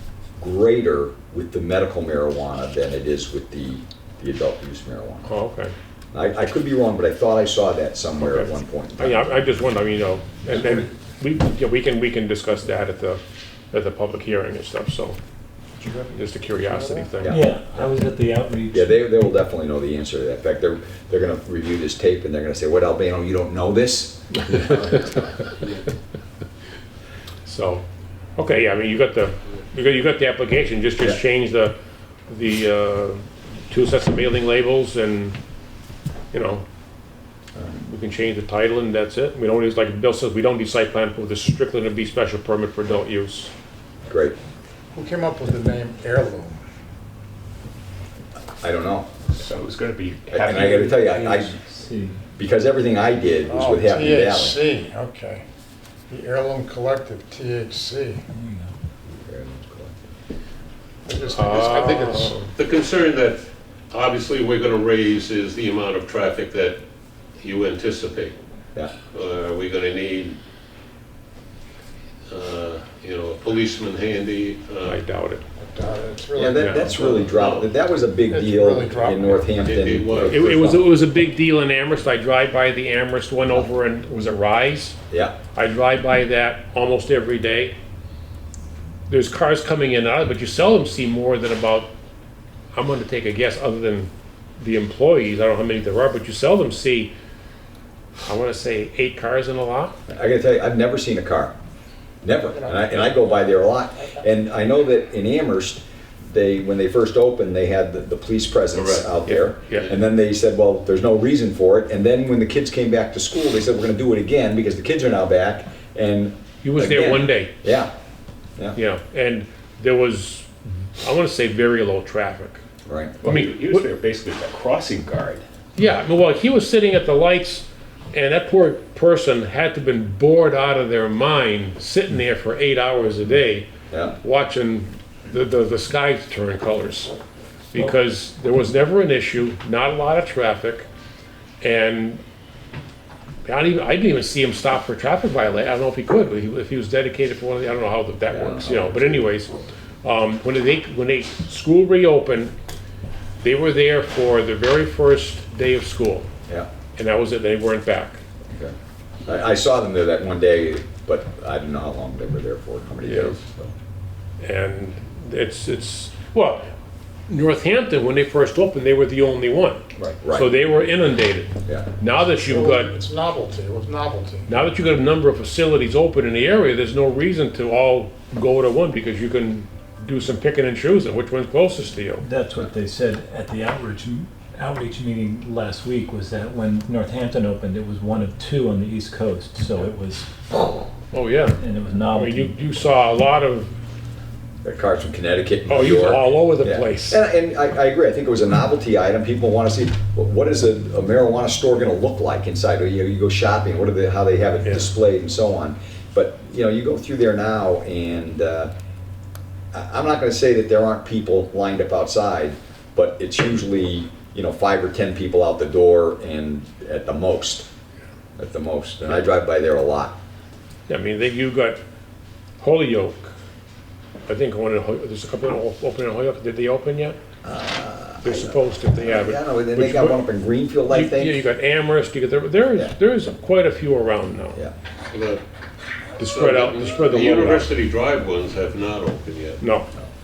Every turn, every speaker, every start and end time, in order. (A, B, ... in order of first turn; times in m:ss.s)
0:00.4-0:05.3 A
0:05.2-0:05.7 B
0:06.1-0:09.4 A
0:08.2-0:13.2 B
0:10.5-0:10.8 C
0:13.7-0:15.2 B
0:15.8-0:17.1 C
0:16.1-0:17.4 B
0:17.2-0:17.5 A
0:17.3-0:19.0 D
0:18.7-0:25.0 A
0:27.4-0:27.8 B
0:28.4-0:31.7 B
0:32.3-0:35.4 B
0:36.3-0:36.6 B
0:37.7-0:43.5 B
0:44.1-0:44.3 A
0:44.9-0:46.6 C
0:48.6-0:49.1 A
0:49.4-0:51.2 E
0:50.3-0:51.6 A
0:50.7-0:52.2 D
0:52.4-0:54.6 A
0:53.5-0:55.4 C
0:56.1-0:58.2 C
0:58.3-0:58.7 D
0:59.2-1:00.0 A
1:01.0-1:02.5 C
1:01.3-1:02.5 B
1:02.5-1:06.8 F
1:07.4-1:08.3 F
1:09.1-1:10.4 F
1:12.3-1:15.0 F
1:14.8-1:15.4 B
1:15.6-1:17.3 C
1:16.3-1:20.9 A
1:16.6-1:16.9 B
1:17.2-1:17.7 F
1:18.3-1:19.5 C
1:19.6-1:20.6 F
1:20.3-1:25.0 B
1:23.4-1:23.7 A
1:25.1-1:25.4 A
1:25.5-1:27.7 B
1:29.1-1:31.9 B
1:32.7-1:37.1 B
1:38.2-1:39.9 B
1:40.1-1:41.5 A
1:42.2-1:57.9 A
1:48.7-1:49.1 F
1:49.2-1:49.9 B
1:49.7-1:50.0 F
1:56.6-1:57.6 B
1:58.7-2:02.6 B
2:02.8-2:03.2 A
2:03.2-2:05.4 E
2:03.2-2:03.9 B
2:05.8-2:13.7 B
2:13.9-2:14.2 A
2:14.2-2:17.1 B
2:17.7-2:20.8 B
2:21.6-2:22.2 B
2:23.4-2:29.5 B
2:28.3-2:29.6 A
2:30.0-2:32.5 B
2:33.4-2:36.3 B
2:37.0-2:38.2 B
2:39.3-2:43.7 A
2:43.0-2:43.4 B
2:44.4-2:46.6 B
2:47.3-2:52.9 B
2:50.0-2:50.5 A
2:52.4-2:54.6 C
2:54.5-3:02.2 B
3:02.2-3:10.3 D
3:11.1-3:11.6 B
3:11.6-3:12.7 D
3:12.1-3:13.7 B
3:14.6-3:28.7 A
3:15.7-3:17.2 B
3:24.6-3:24.9 B
3:29.7-3:37.6 A
3:38.4-3:40.2 A
3:40.9-3:41.8 B
3:42.6-3:43.3 B
3:44.3-3:47.2 B
3:47.4-3:51.4 A
3:48.2-3:50.2 B
3:50.9-3:54.6 B
3:55.1-3:55.4 F
3:56.2-3:57.7 B
3:56.2-3:59.6 F
3:59.6-3:59.9 B